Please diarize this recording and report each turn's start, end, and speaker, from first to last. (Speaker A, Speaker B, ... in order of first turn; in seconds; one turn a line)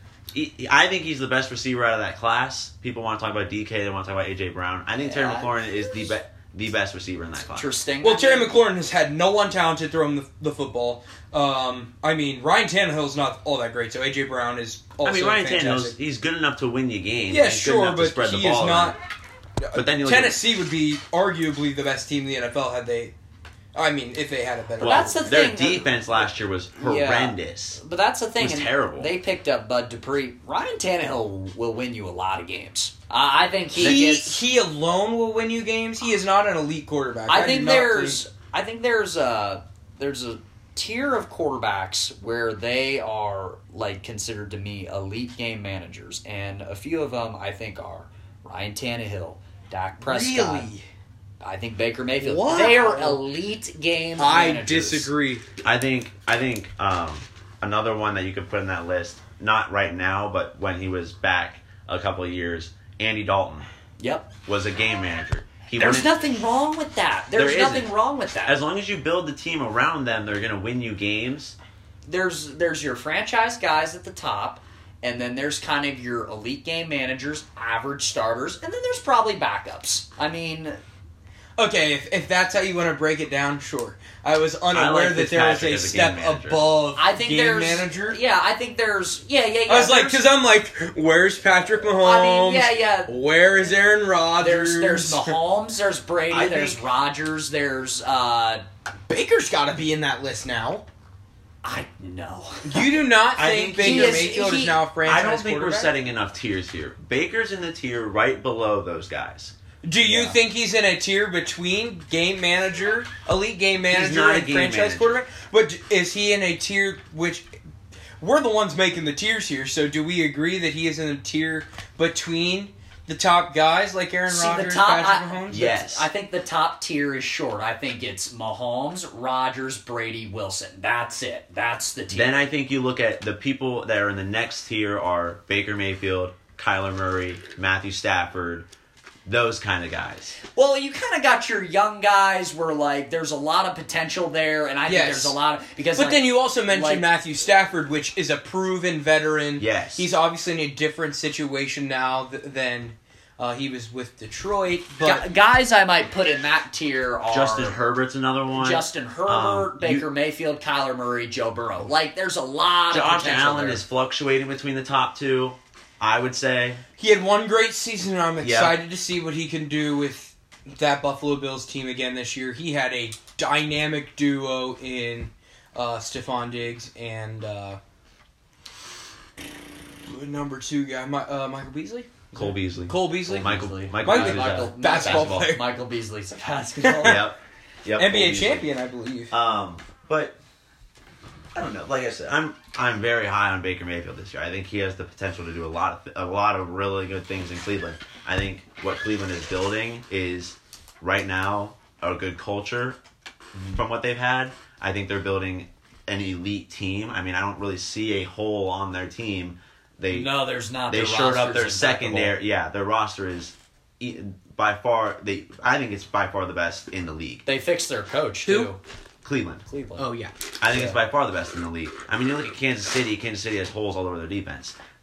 Speaker A: 0.3-7.7
Speaker B: 5.0-5.8
Speaker B: 7.5-8.5
Speaker C: 8.0-15.9
Speaker A: 15.0-18.9
Speaker C: 17.3-19.0
Speaker C: 19.6-23.1
Speaker A: 19.7-20.4
Speaker C: 23.7-25.3
Speaker B: 24.8-26.0
Speaker A: 24.8-27.8
Speaker B: 26.8-34.4
Speaker A: 28.4-29.1
Speaker C: 33.8-38.2
Speaker B: 37.3-50.7
Speaker C: 50.0-50.8
Speaker B: 51.4-55.1
Speaker C: 52.2-53.2
Speaker C: 54.2-55.4
Speaker A: 55.6-63.7
Speaker B: 64.0-64.3
Speaker A: 64.5-66.1
Speaker B: 65.7-68.6
Speaker A: 67.3-67.9
Speaker A: 68.4-71.5
Speaker B: 72.0-80.8
Speaker C: 81.6-88.2
Speaker A: 84.7-86.6
Speaker B: 86.9-90.2
Speaker C: 89.7-95.3
Speaker B: 92.0-93.1
Speaker B: 94.4-98.6
Speaker A: 96.3-96.8
Speaker C: 99.1-100.8
Speaker B: 101.6-102.9
Speaker C: 102.6-105.9
Speaker A: 103.3-104.3
Speaker B: 103.8-104.8
Speaker A: 105.0-109.5
Speaker C: 109.8-117.5
Speaker B: 110.0-110.3
Speaker A: 113.9-115.2
Speaker C: 118.2-125.6
Speaker B: 124.3-132.3
Speaker A: 125.5-126.1
Speaker A: 132.1-138.7
Speaker A: 139.2-140.4
Speaker B: 140.5-147.1
Speaker C: 144.8-145.3
Speaker C: 145.9-155.3
Speaker A: 149.6-150.1
Speaker B: 155.0-157.8
Speaker A: 157.3-160.1
Speaker B: 158.5-163.8
Speaker A: 162.9-166.8
Speaker C: 167.0-177.8
Speaker A: 168.4-168.8
Speaker C: 180.1-185.6
Speaker A: 182.3-185.5
Speaker B: 183.2-187.2
Speaker C: 186.8-187.2
Speaker A: 187.0-188.7
Speaker C: 188.0-189.3
Speaker A: 189.3-190.4
Speaker A: 191.5-203.0
Speaker A: 203.7-210.3
Speaker B: 210.1-212.3
Speaker A: 210.9-217.4
Speaker B: 217.4-218.8
Speaker C: 218.4-218.7
Speaker A: 219.2-219.6
Speaker B: 219.7-220.1
Speaker C: 220.0-220.3
Speaker A: 220.6-224.8
Speaker B: 220.7-221.0